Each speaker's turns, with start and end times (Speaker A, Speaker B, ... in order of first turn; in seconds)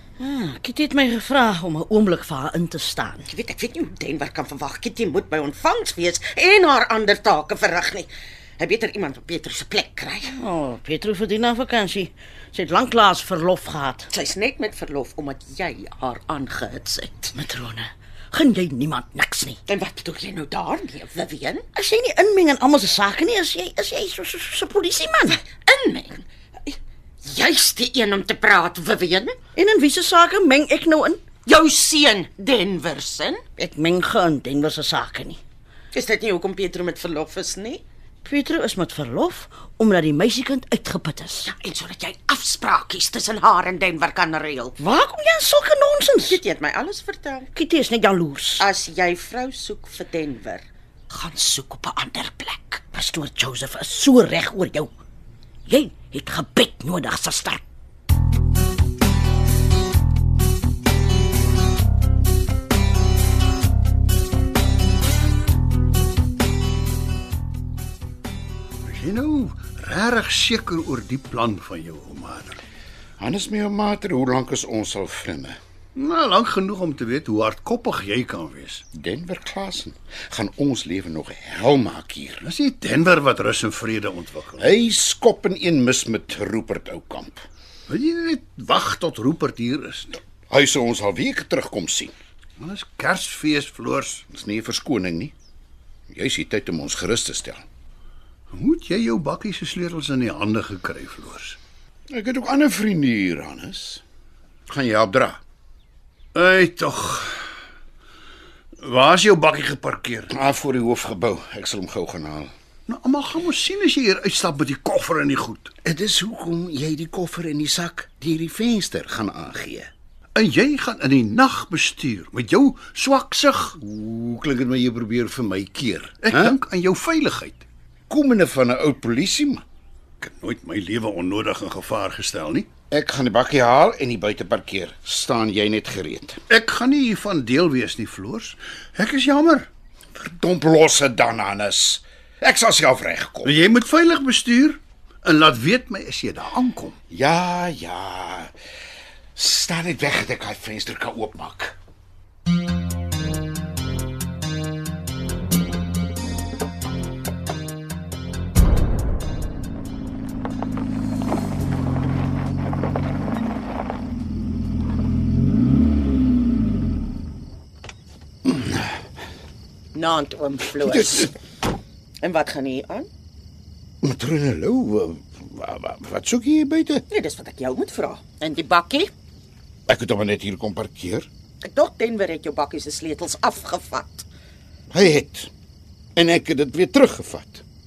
Speaker A: 0.2-3.3, 10.3-14.1, 17.3-19.6, 21.7-25.4, 29.6-31.2, 33.6-35.4, 38.2-41.5, 44.8-46.4, 47.5-48.6, 52.9-54.9, 55.7-57.6
Speaker B: 3.3-10.3, 14.1-17.3, 19.7-21.6, 25.4-29.4, 31.4-33.4, 35.9-37.8, 41.4-44.8, 46.2-47.5, 48.6-52.9, 169.9-171.3, 172.2-173.1, 177.1-179.1, 181.6-184.2
Speaker C: 68.8-72.6, 75.9-78.8, 82.4-84.7, 87.9-90.2, 92.6-94.2, 98.5-101.6, 106.3-107.5, 108.8-110.3, 112.9-115.7, 120.3-123.8, 126.2-127.6, 130.2-132.7, 136.5-139.7, 143.4-147.0
Speaker D: 73.2-75.6, 78.9-82.4, 84.6-87.4, 90.5-92.1, 94.3-95.3, 96.1-97.6, 102.1-104.0, 104.7-105.4, 110.3-112.5, 115.8-119.9, 123.8-126.5, 128.1-129.6, 132.9-136.4, 140.1-143.5, 147.1-148.5, 149.3-151.8, 168.4-168.9, 170.8-171.3, 174.0-177.0, 179.9-181.3, 184.9-185.5, 186.2-187.6